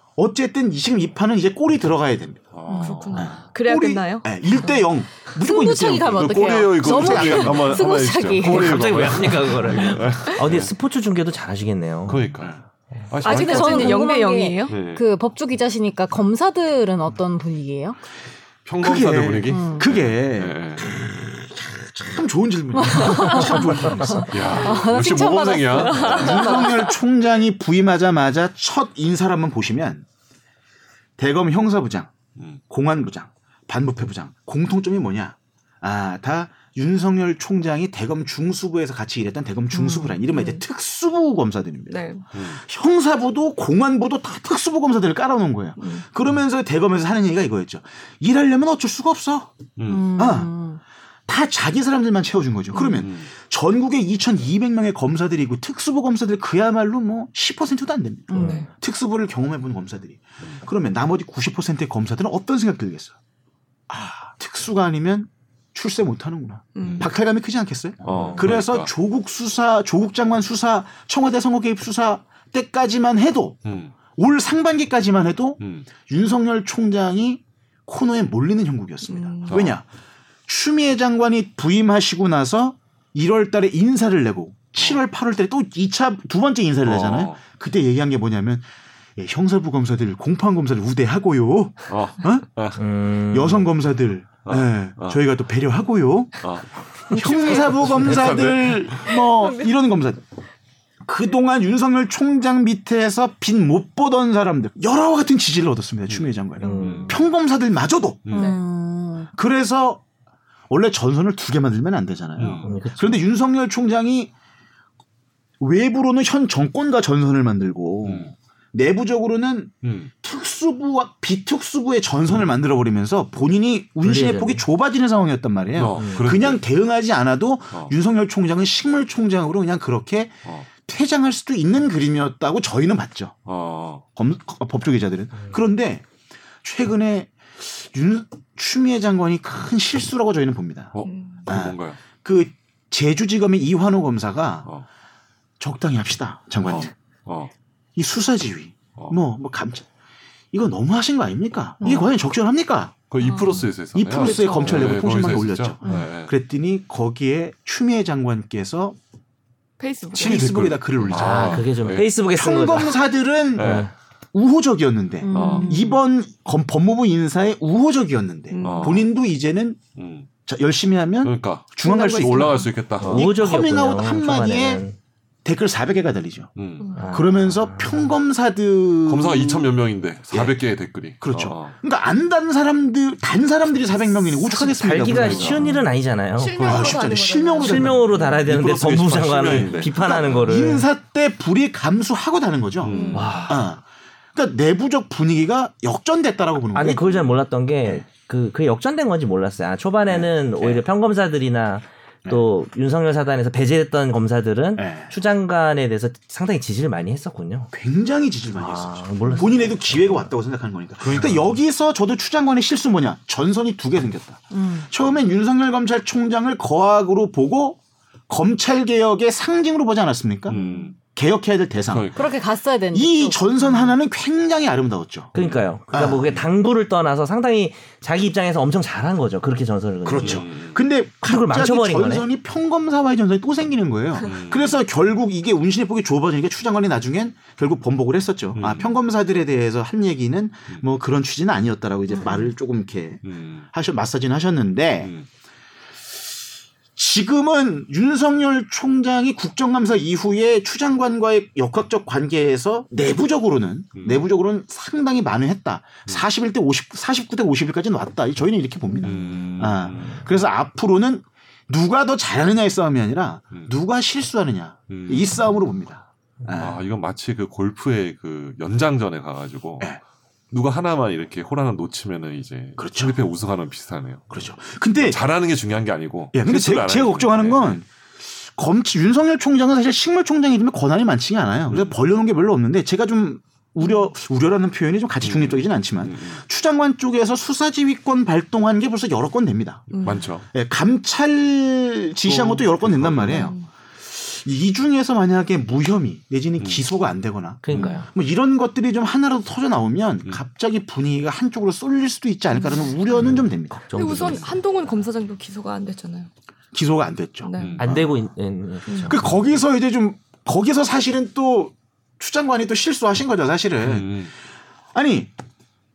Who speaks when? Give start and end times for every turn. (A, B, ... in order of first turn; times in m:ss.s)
0:00.2-0:02.5 A
0:02.5-0:03.5 B
0:02.7-0:04.8 C
0:03.2-0:07.9 A
0:05.4-0:08.8 D
0:06.1-0:10.7 B
0:08.4-0:12.3 E
0:12.1-0:12.6 B
0:13.1-0:14.1 B
0:13.2-0:14.8 C
0:13.2-0:18.0 D
0:14.7-0:15.0 B
0:18.6-0:20.9 B
0:18.8-0:24.5 A
0:19.5-0:19.8 D
0:22.8-0:26.9 D
0:24.0-0:26.5 B
0:25.8-0:26.9 C
0:26.0-0:30.0 A
0:31.2-0:49.6 A
0:32.4-0:32.6 B
0:39.7-0:40.6 C
0:41.9-0:42.3 C
0:42.3-0:42.6 B
0:45.8-0:46.1 C
0:49.8-0:50.2 B
0:49.9-0:50.8 D
0:50.1-0:50.5 A
0:51.3-1:03.2 A
0:52.8-0:53.3 B
0:58.3-0:58.6 D
0:58.4-0:58.7 E
0:58.4-0:58.7 C
1:03.9-1:19.8 A
1:06.8-1:07.1 C
1:06.8-1:07.1 B
1:08.0-1:08.9 B
1:08.1-1:08.5 E
1:13.6-1:14.0 B
1:15.6-1:15.9 B
1:19.0-1:19.7 C
1:19.5-1:19.8 B
1:20.5-1:32.5 A
1:26.8-1:27.5 B
1:31.9-1:32.8 B
1:32.8-1:33.7 E
1:33.3-1:36.4 A
1:34.4-1:35.2 B
1:36.4-1:39.0 B
1:37.1-1:40.2 A
1:37.1-1:37.9 C
1:39.1-1:39.7 C
1:41.0-1:48.3 A
1:46.1-1:47.1 B
1:46.6-1:47.0 C
1:46.6-1:47.2 E
1:48.3-1:48.6 B
1:48.3-1:49.3 D
1:48.4-1:48.6 C
1:49.4-1:50.0 A
1:50.7-1:54.3 A
1:52.4-1:52.7 B
1:52.6-1:53.2 E
1:55.6-2:13.4 A
1:58.0-1:58.3 B
1:59.8-2:00.1 B
2:04.0-2:04.7 E
2:05.8-2:06.6 B
2:06.0-2:06.4 E
2:13.5-2:14.0 B
2:14.2-2:16.0 A
2:16.6-2:21.0 A
2:20.9-2:22.0 B
2:21.0-2:21.5 C
2:21.5-2:24.7 A
2:25.6-2:26.9 A
2:26.6-2:27.5 B
2:28.0-2:29.9 A
2:30.5-2:33.1 A
2:33.1-2:36.3 B
2:33.2-2:35.1 C
2:33.9-2:39.0 A
2:39.8-2:40.5 C
2:40.1-2:41.8 A
2:40.2-2:42.3 B
2:41.1-2:43.0 E
2:42.3-2:49.9 A
2:43.6-2:43.9 B
2:43.6-2:43.9 E
2:45.2-2:46.0 D
2:45.3-2:45.8 B
2:48.5-2:49.0 C
2:48.6-2:49.1 B
2:49.9-2:50.3 B
2:50.4-2:54.8 A
2:51.2-2:53.4 B
2:51.8-2:52.7 C
2:53.0-2:55.0 E
2:55.4-2:56.5 A
2:56.6-2:57.1 B
2:56.8-2:57.1 C
2:57.0-2:57.9 E
2:57.1-2:59.8 A
2:59.0-3:01.8 B
3:00.3-3:00.6 A
3:01.2-3:05.8 A
3:04.4-3:06.7 E
3:05.0-3:05.8 B
3:06.4-3:08.0 C
3:06.6-3:07.0 B
3:06.6-3:08.1 A
3:07.6-3:10.9 E
3:08.0-3:10.7 B
3:09.5-3:13.8 A
3:12.8-3:13.5 B
3:12.9-3:13.4 C
3:13.1-3:13.6 E
3:14.4-3:17.2 A
3:16.7-3:27.7 E
3:20.1-3:20.8 A
3:24.8-3:25.1 A
3:27.7-3:42.1 A
3:28.6-3:30.3 E
3:31.0-3:31.5 B
3:34.5-3:34.9 D
3:40.5-3:41.0 B
3:40.6-3:40.9 D
3:41.9-3:42.3 B
3:42.1-3:43.9 D
3:42.9-3:45.3 A
3:45.4-3:50.5 E
3:45.4-3:45.7 B
3:45.9-3:46.3 A
3:50.0-4:05.1 A
3:50.2-3:50.8 B
3:51.2-3:52.3 E
3:54.2-3:54.8 B
3:58.6-3:58.9 B
4:03.2-4:03.7 B
4:05.0-4:05.3 B
4:07.0-4:26.8 A
4:14.0-4:14.2 B
4:19.0-4:20.3 B
4:24.9-4:25.4 B
4:26.6-4:29.9 B
4:30.5-4:37.8 B
4:32.8-4:33.2 A
4:34.3-4:35.2 A
4:36.3-4:37.9 A
4:38.4-4:49.9 A
4:41.7-4:42.0 B
4:43.8-4:44.1 C
4:45.2-4:46.4 B
4:49.9-4:50.3 C
4:50.0-4:50.5 B
4:50.5-5:03.9 A
4:52.2-4:53.5 B
4:53.3-4:53.7 C
4:56.6-4:56.9 B
4:57.6-4:58.1 E
4:57.7-4:58.0 C
5:02.5-5:02.9 C
5:03.2-5:04.5 E
5:03.9-5:06.3 C
5:04.2-5:04.5 B
5:06.7-5:08.1 A
5:07.4-5:07.9 C
5:07.6-5:07.9 B
5:07.8-5:09.3 E
5:08.9-5:09.2 C
5:09.1-5:14.3 A
5:13.8-5:14.3 B
5:14.9-5:15.3 A